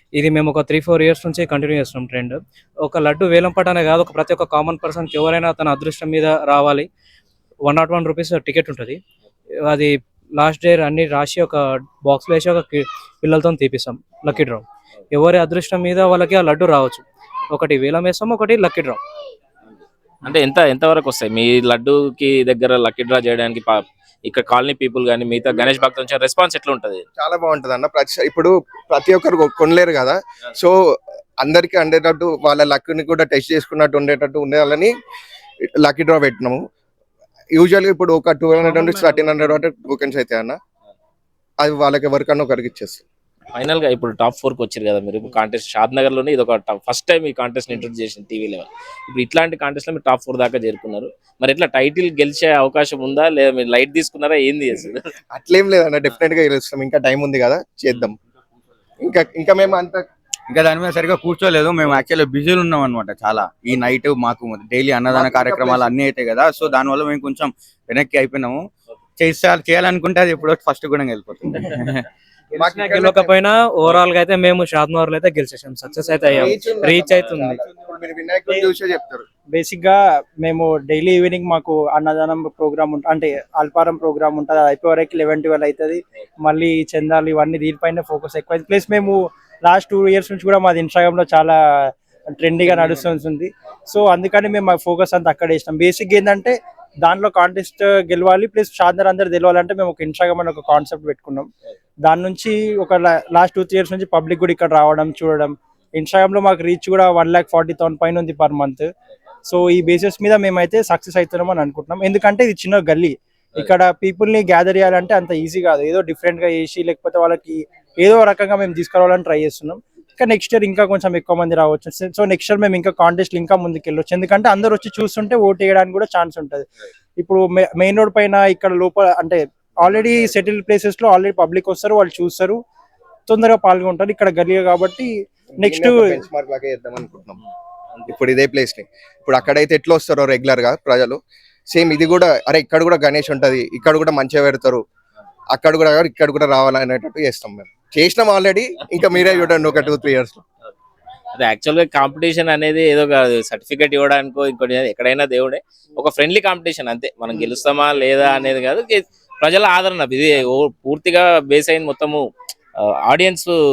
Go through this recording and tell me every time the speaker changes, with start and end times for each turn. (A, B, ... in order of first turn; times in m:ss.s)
0:00.2-0:06.9 A
0:07.7-0:09.0 A
0:09.7-0:19.0 A
0:20.2-0:23.8 B
0:24.3-0:27.0 B
0:27.2-0:30.8 C
0:31.4-0:34.9 C
0:35.8-0:36.6 C
0:37.5-0:40.6 C
0:38.6-0:39.6 A
0:41.6-0:43.0 C
0:43.6-0:55.0 B
0:55.3-0:58.2 C
0:59.0-1:00.0 C
1:00.5-1:08.6 D
1:05.1-1:05.9 C
1:09.2-1:12.1 D
1:12.5-1:17.6 A
1:12.6-1:13.4 C
1:16.3-1:19.2 C
1:19.5-1:31.6 E
1:32.4-1:41.5 E
1:42.0-1:48.9 E
1:49.5-2:06.7 E
2:07.2-2:12.6 E
2:13.3-2:16.1 E
2:15.6-2:17.4 C
2:18.1-2:21.2 C
2:21.7-2:24.8 C
2:25.5-2:30.4 C
2:28.9-2:29.9 B
2:31.3-2:42.2 B
2:43.1-2:43.5 B